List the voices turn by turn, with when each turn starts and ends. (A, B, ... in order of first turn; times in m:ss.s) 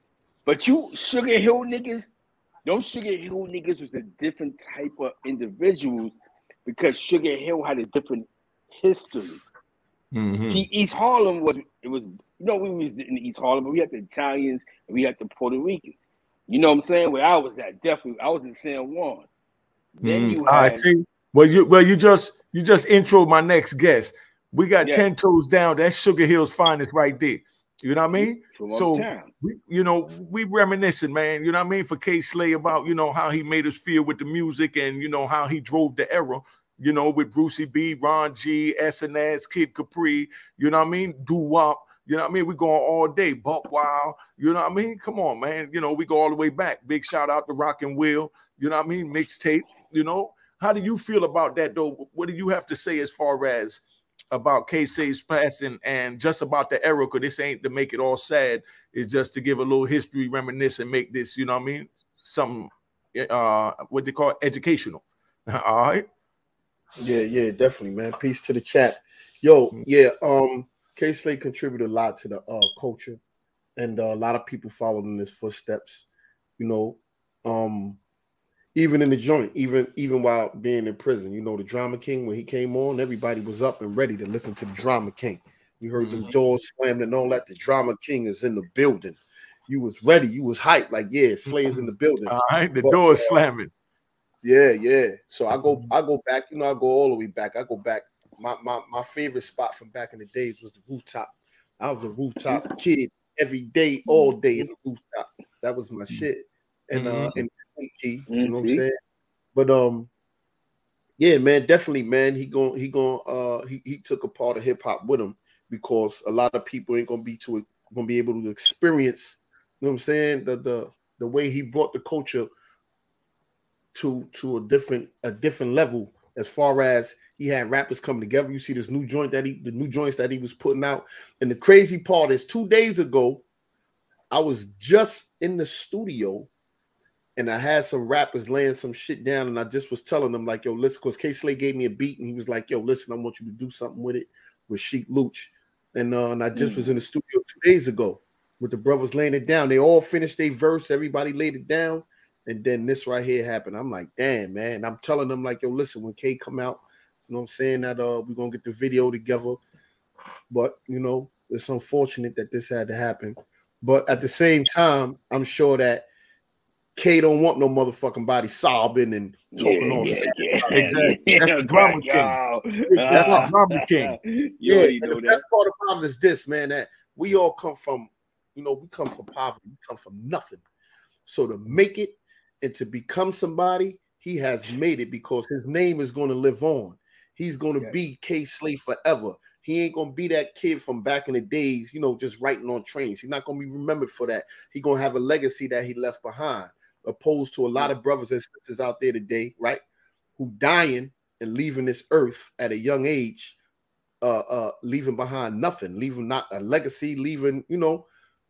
0:00.5-0:02.1 A
0:02.6-0:09.4 A
0:10.1-0:10.6 B
0:10.5-0:16.0 A
0:16.5-0:19.3 A
0:20.0-0:20.9 A
0:20.0-1:06.0 B
0:24.8-0:25.0 A
0:28.1-0:29.3 A
1:07.0-1:13.2 C
1:13.8-1:16.1 C
1:16.6-1:18.0 C
1:18.8-1:33.4 C
1:26.0-1:26.3 B
1:31.5-1:33.7 B
1:34.4-1:48.9 C
1:46.9-1:47.4 B
1:48.3-1:48.8 A
1:49.5-1:50.1 C
1:51.2-2:02.5 C
2:03.9-2:13.4 C
2:14.3-2:16.5 C
2:17.4-2:39.6 C
2:26.5-2:26.9 A
2:40.5-2:46.1 C
2:47.0-2:50.9 C
2:49.6-2:55.4 A
2:50.7-2:52.3 B
2:52.9-2:53.5 C
2:53.1-2:54.2 B
2:54.6-3:00.6 C
3:01.2-3:19.8 C
3:20.4-3:23.6 C
3:24.2-3:28.1 C